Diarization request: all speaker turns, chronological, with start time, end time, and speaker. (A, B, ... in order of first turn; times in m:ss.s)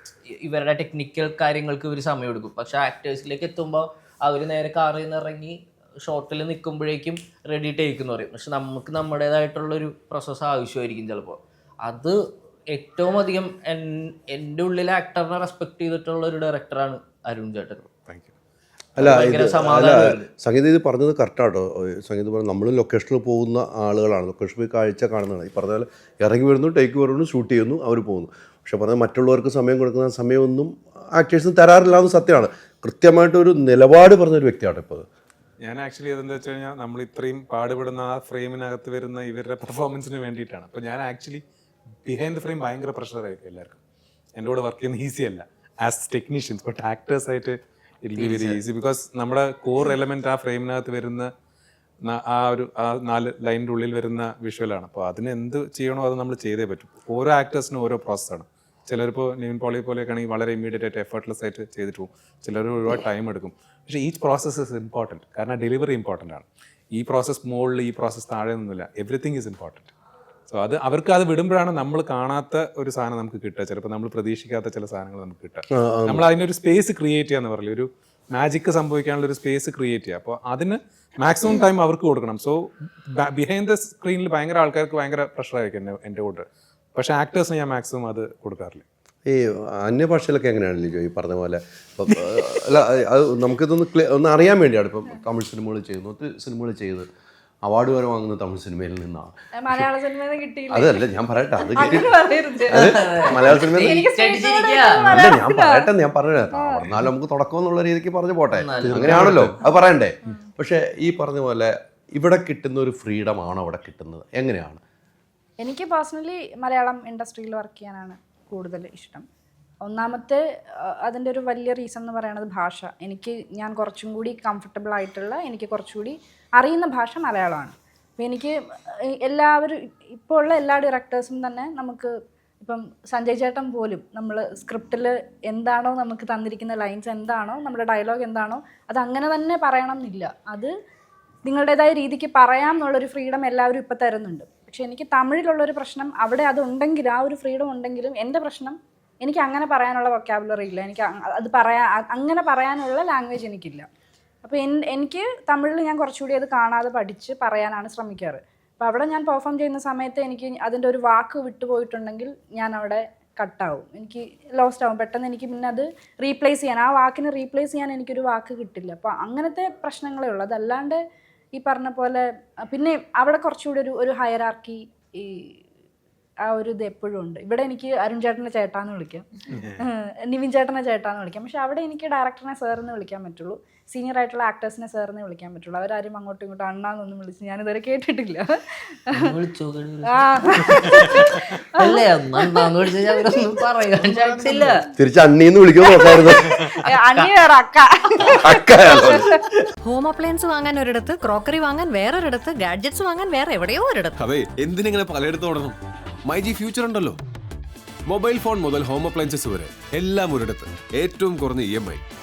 0:00.4-0:12.2 A
0:12.7-0:17.8 A
0:18.0-0:18.3 B
0:19.0-0:35.0 C
0:19.0-0:20.3 A
0:35.6-0:41.4 B
0:42.0-0:43.8 B
0:44.3-0:51.3 B
0:48.2-0:48.6 A
0:52.0-1:09.9 B
1:10.5-1:28.8 B
1:15.7-1:16.2 C
1:29.2-1:37.1 C
1:37.6-1:39.9 C
1:39.6-1:41.0 D
1:40.7-1:42.1 C
1:41.6-1:43.3 D
1:42.7-1:45.1 A
1:42.7-1:44.0 C
1:43.8-1:45.9 D
1:45.0-1:54.8 C
1:46.5-1:47.0 D
1:48.5-1:49.5 A
1:49.0-1:49.5 B
1:55.6-1:59.2 D
1:59.8-2:08.5 D
2:09.2-2:20.7 D
2:21.4-2:33.9 D
2:34.4-2:51.0 D
2:51.5-2:55.6 D
2:56.4-2:59.3 D
2:59.5-2:59.8 B
2:59.8-3:09.2 D
3:09.2-3:14.8 A
3:10.1-3:11.8 D
3:15.0-3:16.5 C
3:16.8-3:17.3 A
3:16.8-3:19.4 D
3:18.4-3:19.3 C
3:19.8-3:24.2 E
3:24.2-3:27.2 F
3:28.0-3:32.0 F